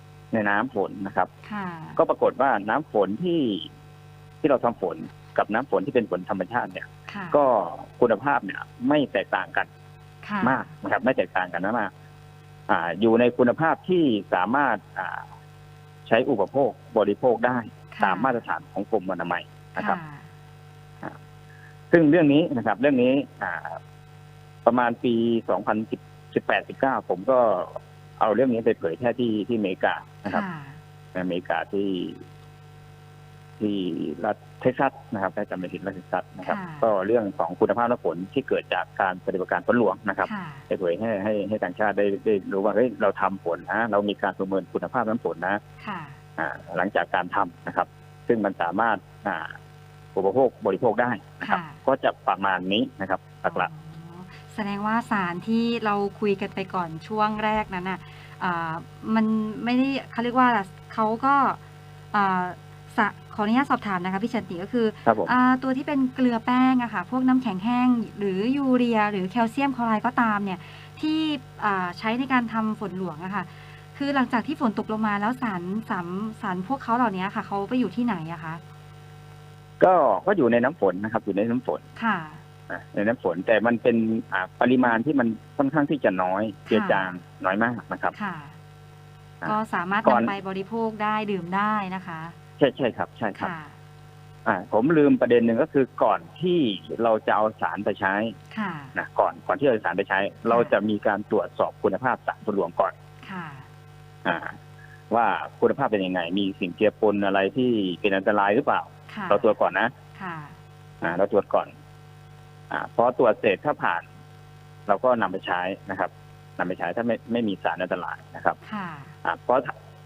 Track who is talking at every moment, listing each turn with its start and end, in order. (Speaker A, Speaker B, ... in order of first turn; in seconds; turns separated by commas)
Speaker A: 0.3-1.3, Speaker B: 1.5-2.0, Speaker A: 2.0-3.7, Speaker A: 4.4-9.7, Speaker B: 7.1-7.4, Speaker B: 10.2-10.7, Speaker A: 10.4-11.9, Speaker A: 12.7-15.3, Speaker A: 16.1-20.0, Speaker B: 17.9-18.4, Speaker B: 19.8-20.2, Speaker A: 21.9-23.8, Speaker A: 24.6-30.4, Speaker B: 30.3-30.8, Speaker A: 31.1-32.2, Speaker A: 33.6-45.6, Speaker B: 36.5-36.9, Speaker B: 40.2-40.7, Speaker B: 45.8-46.2, Speaker A: 46.4-49.6, Speaker A: 50.1-53.7, Speaker B: 51.4-51.8, Speaker B: 53.5-61.6, Speaker B: 62.1-78.6, Speaker A: 65.1-65.3, Speaker A: 79.8-81.8, Speaker B: 82.0-82.4, Speaker A: 82.7-88.1, Speaker B: 86.7-87.1, Speaker B: 88.2-88.5, Speaker A: 89.4-90.3, Speaker B: 89.5-92.3, Speaker A: 92.6-93.5, Speaker B: 93.3-93.8, Speaker A: 94.5-98.3, Speaker B: 98.5-98.9, Speaker A: 99.0-102.9, Speaker B: 100.5-100.7, Speaker B: 103.2-103.7, Speaker A: 104.2-104.6, Speaker A: 105.1-109.9, Speaker B: 109.1-109.5, Speaker B: 110.2-110.6, Speaker A: 111.0-111.7, Speaker A: 112.7-114.1, Speaker A: 114.9-118.6, Speaker B: 118.6-119.1, Speaker A: 119.2-119.7